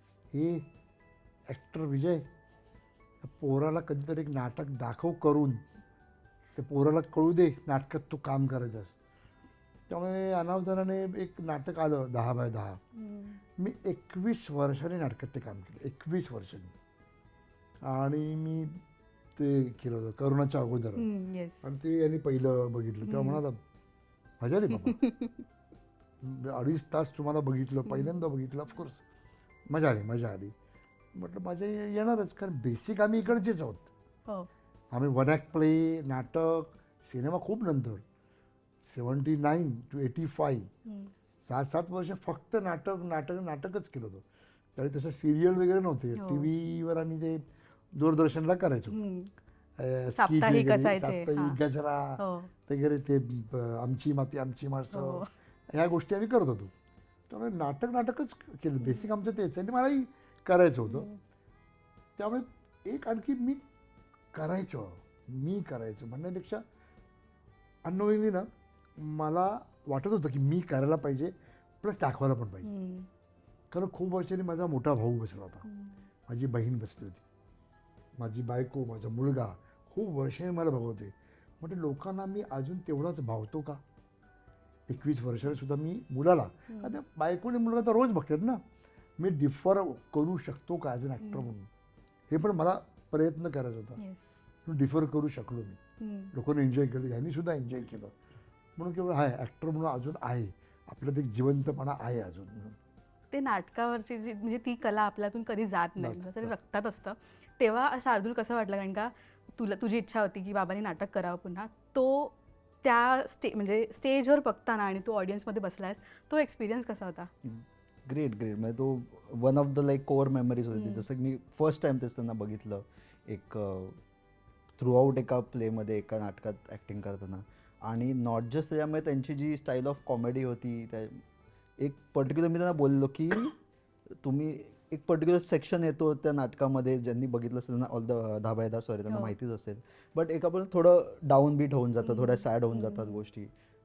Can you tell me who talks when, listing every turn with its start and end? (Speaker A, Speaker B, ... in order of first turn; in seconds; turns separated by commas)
Speaker A: 0.3-0.7, Speaker A: 1.5-2.2, Speaker A: 3.2-5.6, Speaker A: 6.6-8.9, Speaker A: 9.9-12.8, Speaker B: 13.0-13.4, Speaker A: 13.6-16.7, Speaker A: 17.9-18.8, Speaker A: 19.4-21.1, Speaker B: 21.0-21.8, Speaker A: 21.6-23.6, Speaker B: 23.1-23.4, Speaker A: 24.4-25.0, Speaker B: 24.8-25.4, Speaker A: 26.2-29.0, Speaker A: 29.7-30.6, Speaker A: 31.1-33.9, Speaker A: 34.9-38.0, Speaker A: 38.8-40.7, Speaker B: 40.9-41.1, Speaker A: 41.5-44.2, Speaker A: 44.8-47.4, Speaker B: 46.2-46.5, Speaker A: 48.0-49.0, Speaker B: 48.9-49.3, Speaker A: 49.8-56.7, Speaker B: 50.1-51.6, Speaker B: 52.2-52.5, Speaker B: 54.9-55.3, Speaker A: 57.3-61.1, Speaker B: 60.9-61.2, Speaker A: 62.2-63.6, Speaker A: 64.3-66.6, Speaker A: 67.8-72.7, Speaker B: 72.6-73.1, Speaker A: 73.7-75.7, Speaker B: 75.7-76.0, Speaker A: 76.3-77.2, Speaker A: 78.2-83.8, Speaker A: 84.9-88.6, Speaker B: 85.5-85.8, Speaker B: 86.7-87.0, Speaker A: 89.2-91.7, Speaker A: 92.3-94.0, Speaker B: 94.0-94.6, Speaker A: 94.7-95.8, Speaker B: 96.0-96.3, Speaker A: 96.3-98.1, Speaker A: 98.8-102.8, Speaker B: 103.3-117.3, Speaker A: 106.0-106.5, Speaker C: 117.5-124.0, Speaker B: 120.7-121.1, Speaker C: 124.8-131.2, Speaker C: 131.8-133.5, Speaker C: 134.2-143.5, Speaker B: 139.1-139.4, Speaker B: 142.0-143.2